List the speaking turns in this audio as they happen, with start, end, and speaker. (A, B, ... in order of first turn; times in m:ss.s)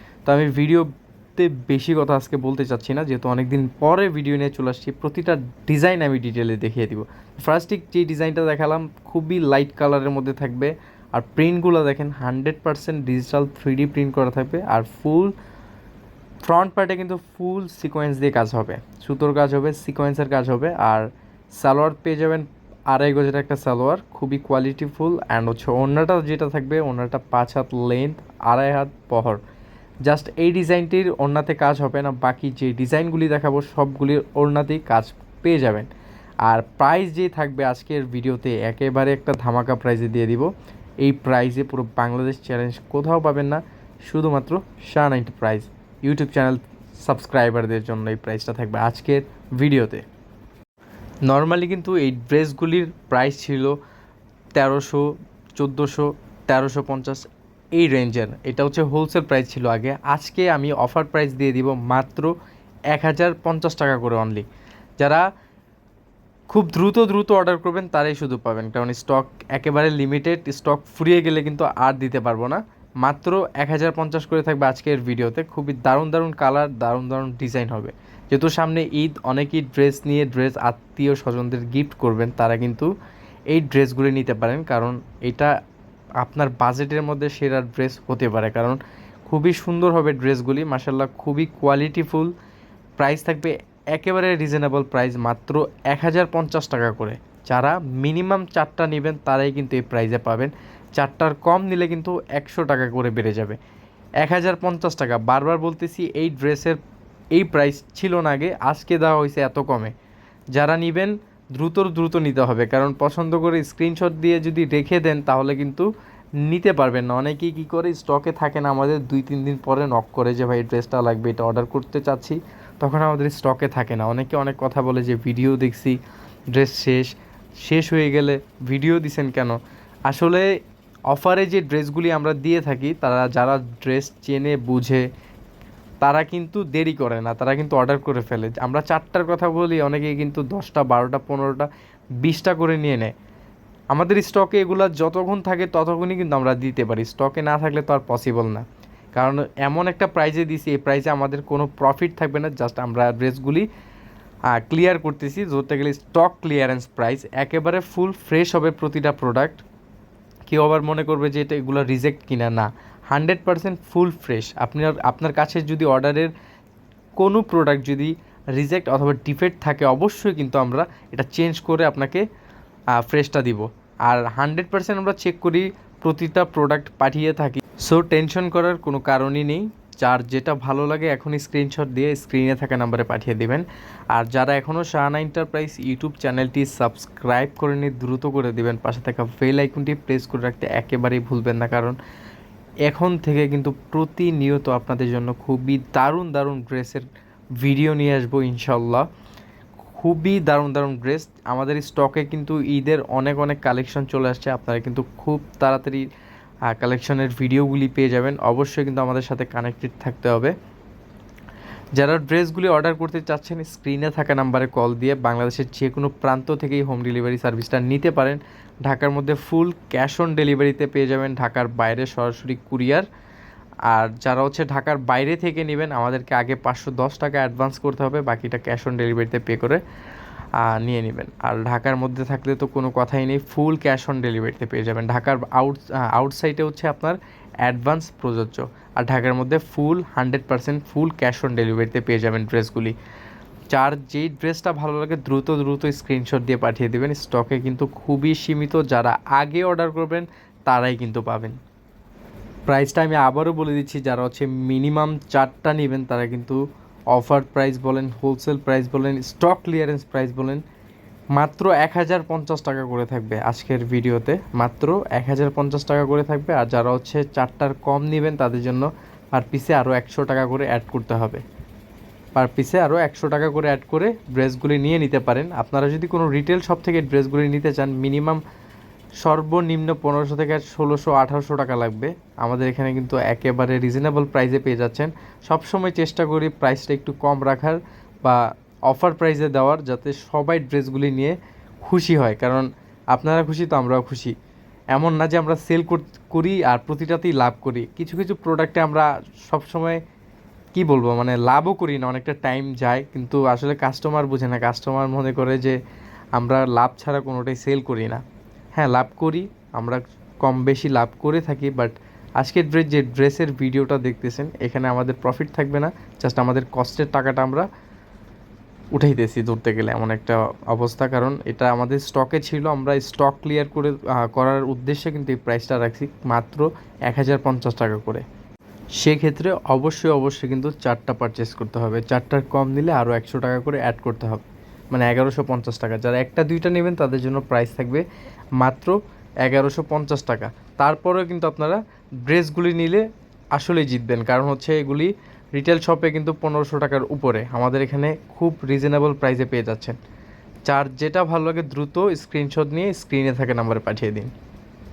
0:00.3-0:15.4 A
0:16.4-0:21.1 A
0:21.6-0:29.4 A
0:30.0-0:35.9 A
0:36.4-0:40.5 A
0:41.0-0:50.0 A
0:51.3-0:53.8 A
0:54.6-1:02.3 A
1:02.9-1:04.4 A
1:05.0-1:05.3 A
1:06.5-1:22.9 A
1:23.5-1:25.5 A
1:26.2-1:32.3 A
1:33.0-1:43.6 A
1:44.2-1:46.8 A
1:47.3-1:49.9 A
1:50.5-1:55.9 A
1:56.4-2:06.0 A
2:06.5-2:07.1 A
2:07.6-2:09.6 A
2:10.1-2:10.5 A
2:11.1-2:15.1 A
2:16.0-2:21.7 A
2:22.2-2:23.1 A
2:23.9-2:33.7 A
2:34.5-2:39.6 A
2:40.5-2:46.3 A
2:47.2-2:52.2 A
2:53.0-3:12.0 A
3:12.9-3:17.1 A
3:17.6-3:19.1 A
3:20.0-3:26.1 A
3:26.7-3:30.6 A
3:32.0-3:43.1 A
3:43.9-3:49.8 A
3:50.6-4:03.0 A
4:03.7-4:11.6 A
4:12.7-4:16.6 A
4:17.1-4:20.6 A
4:21.3-4:31.4 A
4:32.4-4:38.4 A
4:39.2-4:54.3 A
4:54.9-5:00.0 A
5:00.7-5:05.8 A
5:06.4-5:08.2 A
5:08.8-5:17.7 A
5:18.9-5:28.2 A
5:29.0-5:38.0 A
5:38.6-5:50.0 A
5:50.6-5:54.3 A